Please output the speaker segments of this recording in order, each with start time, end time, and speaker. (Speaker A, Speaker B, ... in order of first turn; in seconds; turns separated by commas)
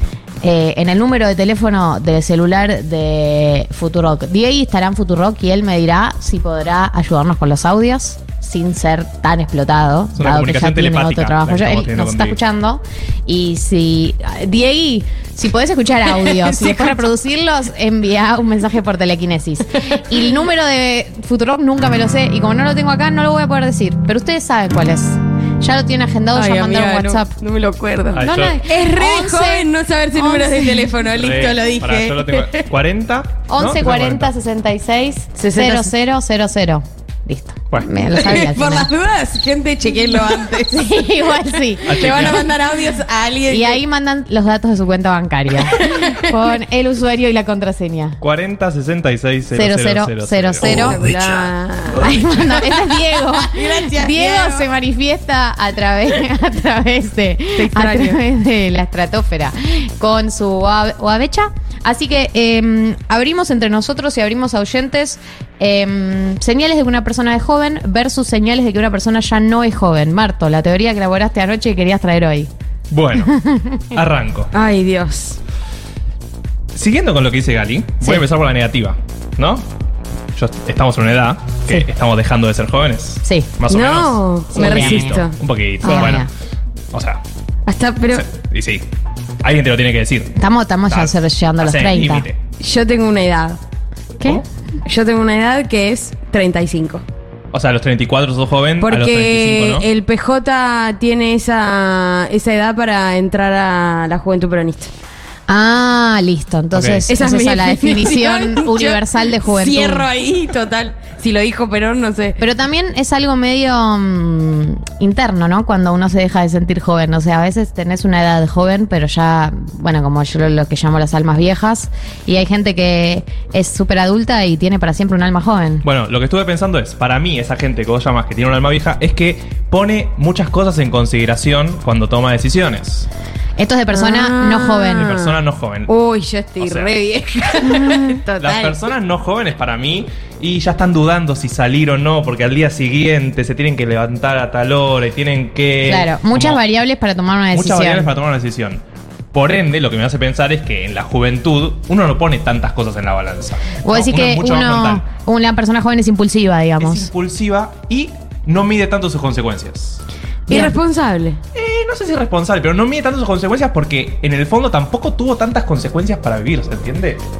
Speaker A: 0.4-27.3, Speaker B: 10.2-12.4, Speaker C: 16.2-17.0, Speaker C: 26.3-32.7, Speaker B: 28.1-28.6, Speaker A: 28.2-30.9, Speaker B: 31.2-34.3, Speaker A: 33.5-38.9, Speaker C: 35.4-35.9, Speaker C: 38.1-43.8, Speaker A: 40.7-42.4, Speaker B: 41.9-42.5, Speaker A: 43.5-48.2, Speaker C: 45.7-46.4, Speaker B: 48.2-51.0, Speaker A: 49.5-51.0, Speaker C: 50.6-54.7, Speaker A: 52.0-72.5, Speaker C: 57.6-58.2, Speaker B: 72.9-74.5, Speaker A: 73.4-73.8, Speaker C: 74.5-75.4, Speaker B: 76.8-79.7, Speaker B: 80.3-86.3, Speaker A: 83.2-83.5, Speaker C: 83.7-86.2, Speaker A: 84.5-85.2, Speaker A: 85.8-86.3, Speaker B: 86.9-87.2, Speaker C: 87.7-88.3, Speaker B: 88.2-88.8, Speaker B: 89.4-90.3, Speaker A: 90.4-92.3, Speaker B: 90.9-92.4, Speaker C: 92.6-93.6, Speaker C: 94.8-97.0, Speaker B: 97.5-99.9, Speaker C: 98.8-104.9, Speaker A: 105.5-110.1, Speaker B: 106.7-107.0, Speaker C: 107.1-112.4, Speaker A: 112.4-125.8, Speaker B: 125.8-133.1, Speaker A: 133.6-135.1, Speaker C: 133.9-138.8, Speaker B: 135.0-135.9, Speaker B: 136.6-136.9, Speaker B: 138.4-146.6, Speaker A: 145.9-148.1, Speaker B: 147.5-148.8, Speaker B: 149.3-155.1, Speaker A: 153.8-157.1, Speaker B: 156.8-160.0, Speaker C: 160.5-161.4, Speaker A: 160.5-160.7, Speaker B: 161.6-167.2